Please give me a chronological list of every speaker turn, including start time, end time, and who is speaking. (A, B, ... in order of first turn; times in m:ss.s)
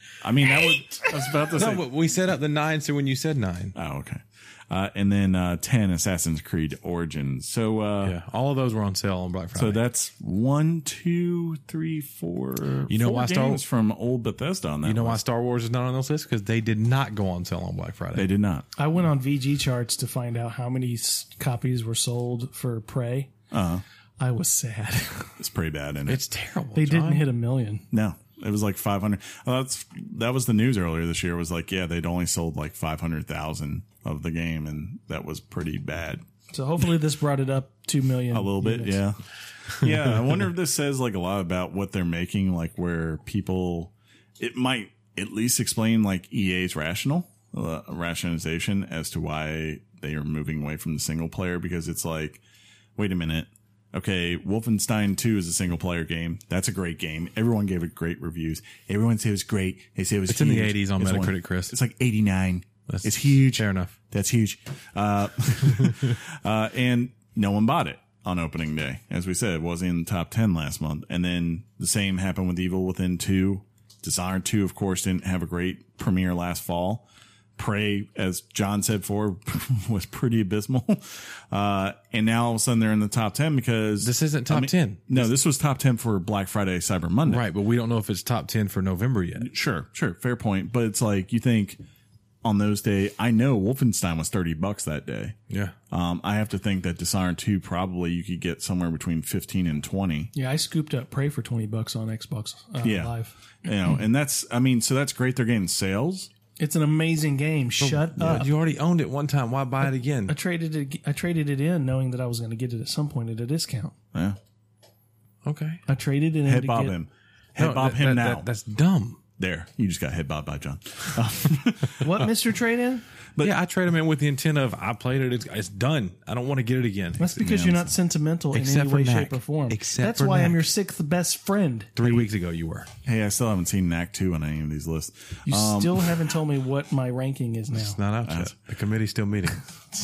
0:00.2-0:01.9 A
0:01.5-0:03.8 B
0:03.8-0:08.2 A
0:08.0-0:09.8 B
0:09.6-0:15.2 A
0:12.9-0:13.6 B
0:14.8-0:18.3 B
0:18.1-0:18.7 A
0:18.8-0:23.3 C
0:23.5-0:23.8 A
0:24.2-0:25.4 C
0:25.4-0:26.2 A
0:26.1-0:27.3 B
0:26.8-0:27.8 C
0:27.9-0:36.2 A
0:36.5-0:39.0 C
0:38.3-0:52.4 A
0:53.0-1:17.0 A
1:00.3-1:01.7 B
1:02.9-1:03.9 B
1:17.6-1:27.5 A
1:24.0-1:25.3 B
1:27.3-1:29.5 B
1:29.4-1:31.8 A
1:32.4-1:35.4 A
1:35.5-1:35.8 B
1:35.9-1:40.3 A
1:40.3-1:43.3 C
1:42.8-1:46.3 A
1:46.6-1:48.5 C
1:47.8-1:50.4 B
1:50.3-1:54.0 C
1:55.4-1:55.8 B
1:55.9-1:57.0 C
1:56.4-1:58.5 A
1:57.6-1:59.2 B
1:59.4-2:02.3 A
2:02.0-2:03.0 C
2:03.4-2:07.8 B
2:07.2-2:12.0 C
2:07.4-2:07.8 A
2:08.5-2:10.7 B
2:12.0-2:12.9 B
2:13.0-2:16.3 A
2:15.5-2:18.0 C
2:17.7-2:19.7 B
2:18.3-2:18.5 A